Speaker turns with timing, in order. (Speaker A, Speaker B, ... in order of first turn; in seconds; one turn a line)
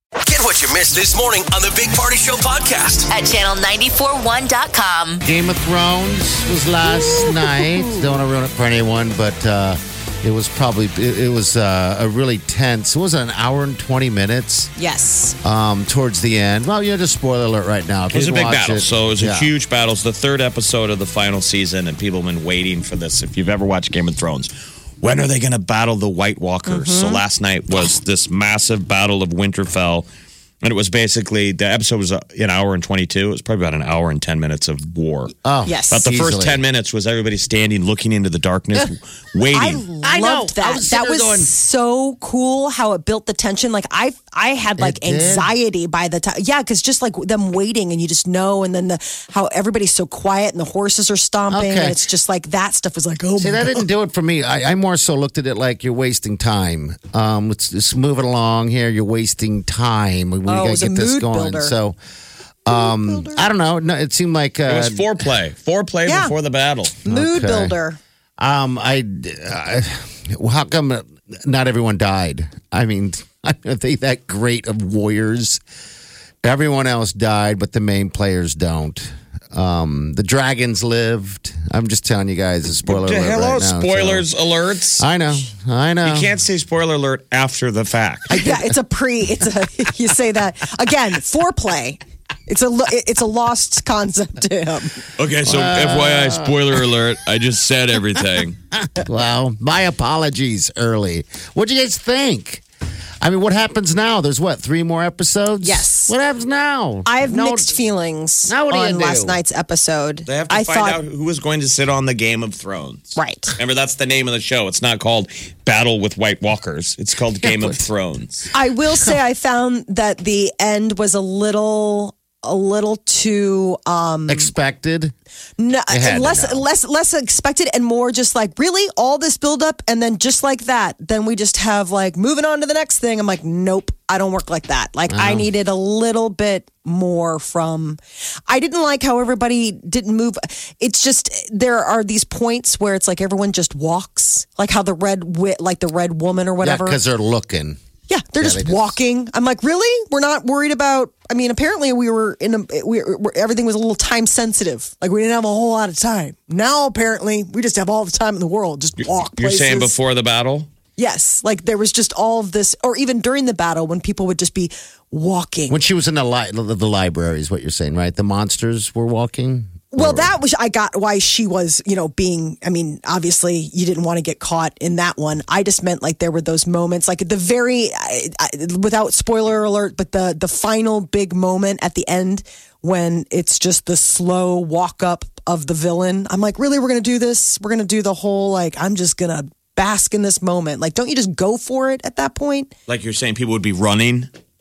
Speaker A: 0.2-3.1
Speaker B: 3.1-5.2
Speaker C: 5.2-14.7
Speaker D: 6.8-8.1
Speaker D: 14.8-15.4
Speaker C: 15.4-19.5
Speaker E: 18.1-30.1
Speaker D: 26.7-27.2
Speaker E: 30.6-35.3
Speaker C: 35.4-36.6
Speaker D: 35.6-36.0
Speaker E: 35.9-39.9
Speaker D: 39.5-53.9
Speaker C: 40.0-41.5
Speaker C: 44.8-45.5
Speaker C: 51.5-52.0
Speaker C: 53.4-62.0
Speaker D: 60.5-61.8
Speaker C: 62.6-65.2
Speaker D: 62.7-63.5
Speaker E: 64.7-67.0
Speaker D: 66.0-66.3
Speaker C: 67.0-67.8
Speaker D: 67.0-68.0
Speaker C: 68.4-75.6
Speaker C: 76.4-84.3
Speaker E: 82.8-85.1
Speaker C: 85.0-86.3
Speaker E: 86.0-88.3
Speaker D: 88.3-95.0
Speaker E: 95.2-98.6
Speaker C: 95.4-96.8
Speaker C: 98.7-102.6
Speaker C: 103.2-107.8
Speaker D: 105.6-106.1
Speaker D: 107.0-111.0
Speaker C: 108.5-109.4
Speaker E: 110.3-118.5
Speaker D: 113.2-113.5
Speaker C: 117.4-117.8
Speaker D: 118.5-124.5
Speaker C: 118.9-119.2
Speaker C: 124.3-125.1
Speaker D: 125.6-147.0
Speaker C: 125.9-126.7
Speaker C: 135.1-135.5
Speaker C: 146.6-147.8
Speaker D: 148.1-160.0
Speaker C: 148.4-149.0
Speaker E: 159.2-160.7
Speaker D: 161.0-165.8
Speaker C: 165.7-170.3
Speaker D: 169.9-192.7
Speaker E: 192.9-194.3